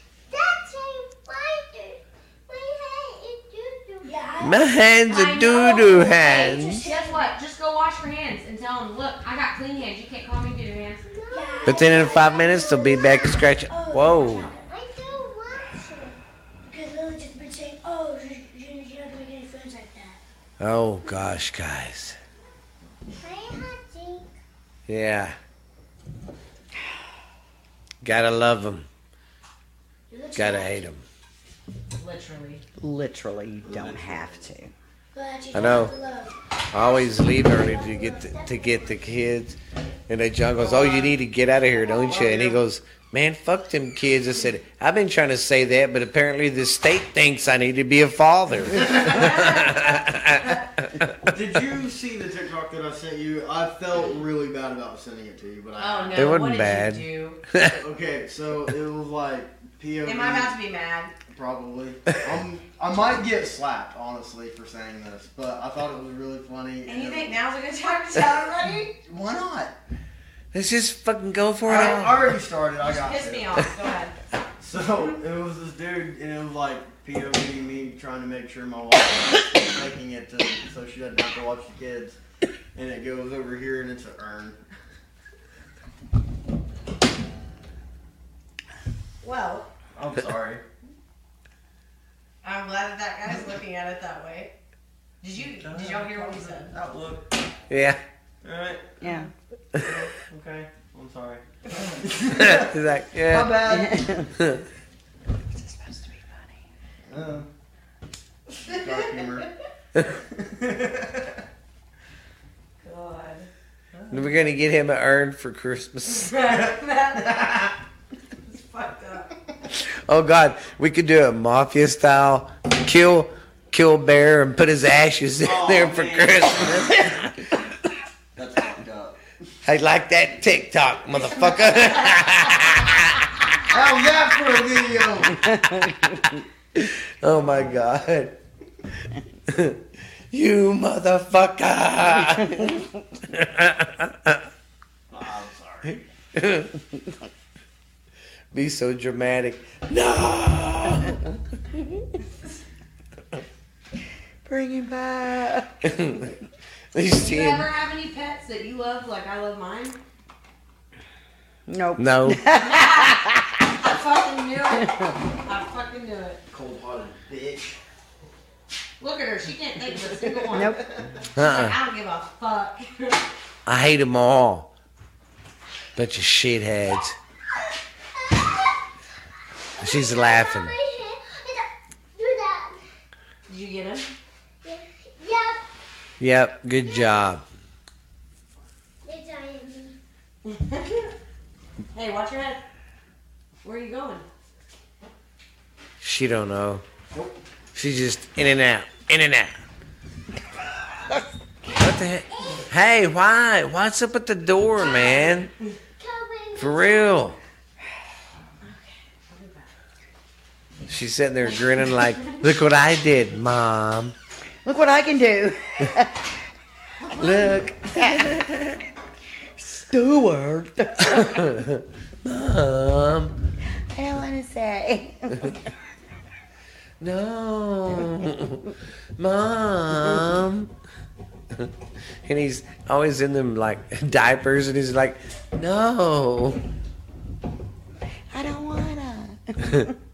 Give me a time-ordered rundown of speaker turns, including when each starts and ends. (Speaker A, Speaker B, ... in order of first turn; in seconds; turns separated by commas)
Speaker A: 0.3-4.2, Speaker B: 4.0-4.7, Speaker C: 4.4-6.8, Speaker D: 5.1-11.0, Speaker B: 5.6-7.3, Speaker A: 5.9-6.6, Speaker A: 11.0-13.4, Speaker B: 11.3-14.6, Speaker C: 11.6-14.5, Speaker A: 14.6-16.2, Speaker B: 16.6-20.2, Speaker C: 20.6-22.2, Speaker A: 23.2-24.2, Speaker C: 24.9-25.4, Speaker C: 28.0-28.9, Speaker B: 30.1-30.9, Speaker C: 30.3-31.0, Speaker D: 31.9-32.6, Speaker E: 32.8-34.7, Speaker F: 33.6-34.5, Speaker B: 35.1-39.2, Speaker C: 35.5-35.9, Speaker C: 36.7-51.1, Speaker D: 40.6-41.1, Speaker F: 42.0-42.6, Speaker F: 48.8-49.2, Speaker D: 49.0-49.8, Speaker F: 51.2-56.3, Speaker D: 55.8-57.4, Speaker C: 56.1-57.8, Speaker F: 57.6-60.5, Speaker D: 60.0-61.1, Speaker F: 61.3-67.3, Speaker D: 66.8-68.9, Speaker F: 69.0-69.8, Speaker C: 70.5-72.3, Speaker F: 71.6-73.6, Speaker D: 72.8-74.1, Speaker F: 74.6-82.2, Speaker F: 82.7-84.6, Speaker D: 89.2-89.7, Speaker F: 89.9-90.6, Speaker D: 92.4-94.5, Speaker D: 95.2-96.7, Speaker F: 95.6-97.3, Speaker C: 97.7-98.0, Speaker F: 98.4-104.2, Speaker E: 99.0-99.3, Speaker C: 102.3-103.6, Speaker E: 103.7-104.3, Speaker E: 105.5-106.3, Speaker F: 107.1-107.5, Speaker D: 108.6-109.0, Speaker F: 108.6-109.5, Speaker F: 110.0-111.4, Speaker D: 112.8-113.5, Speaker F: 113.9-114.3, Speaker C: 114.1-116.3, Speaker D: 116.1-117.7, Speaker F: 117.2-117.7, Speaker D: 118.5-119.3, Speaker C: 119.7-127.3, Speaker F: 125.4-127.0, Speaker F: 128.3-129.2, Speaker C: 129.6-133.3, Speaker F: 133.7-135.5, Speaker E: 135.6-136.2, Speaker C: 136.7-138.4, Speaker C: 139.5-144.4, Speaker F: 145.1-146.0, Speaker C: 146.3-146.7, Speaker C: 148.5-151.2, Speaker E: 154.4-155.9, Speaker C: 155.8-156.3, Speaker C: 156.9-157.7, Speaker D: 157.1-160.0, Speaker E: 161.7-163.4, Speaker C: 162.0-162.4, Speaker D: 162.5-166.4, Speaker F: 166.5-167.8, Speaker D: 169.0-170.8, Speaker F: 170.1-171.2, Speaker E: 170.5-170.8, Speaker C: 171.3-171.8, Speaker D: 171.3-173.2, Speaker C: 173.7-174.7, Speaker C: 175.9-177.2, Speaker A: 178.2-178.6, Speaker A: 179.8-182.8, Speaker C: 179.8-180.7, Speaker D: 183.5-184.1, Speaker A: 184.6-185.6, Speaker C: 186.2-187.4, Speaker A: 189.0-190.0, Speaker D: 190.4-191.1, Speaker D: 191.9-192.6, Speaker D: 193.6-194.2, Speaker C: 196.0-196.8, Speaker F: 197.1-197.4, Speaker C: 197.7-199.5, Speaker C: 201.8-205.5, Speaker A: 206.0-207.3, Speaker C: 206.6-207.4, Speaker D: 208.6-209.7, Speaker C: 210.9-214.1, Speaker E: 214.6-216.4, Speaker D: 217.0-217.6, Speaker C: 217.2-218.8, Speaker E: 217.8-218.4, Speaker E: 219.6-221.5, Speaker C: 221.0-223.3, Speaker E: 223.9-225.6, Speaker C: 227.0-230.7, Speaker C: 232.2-236.6, Speaker E: 238.3-240.0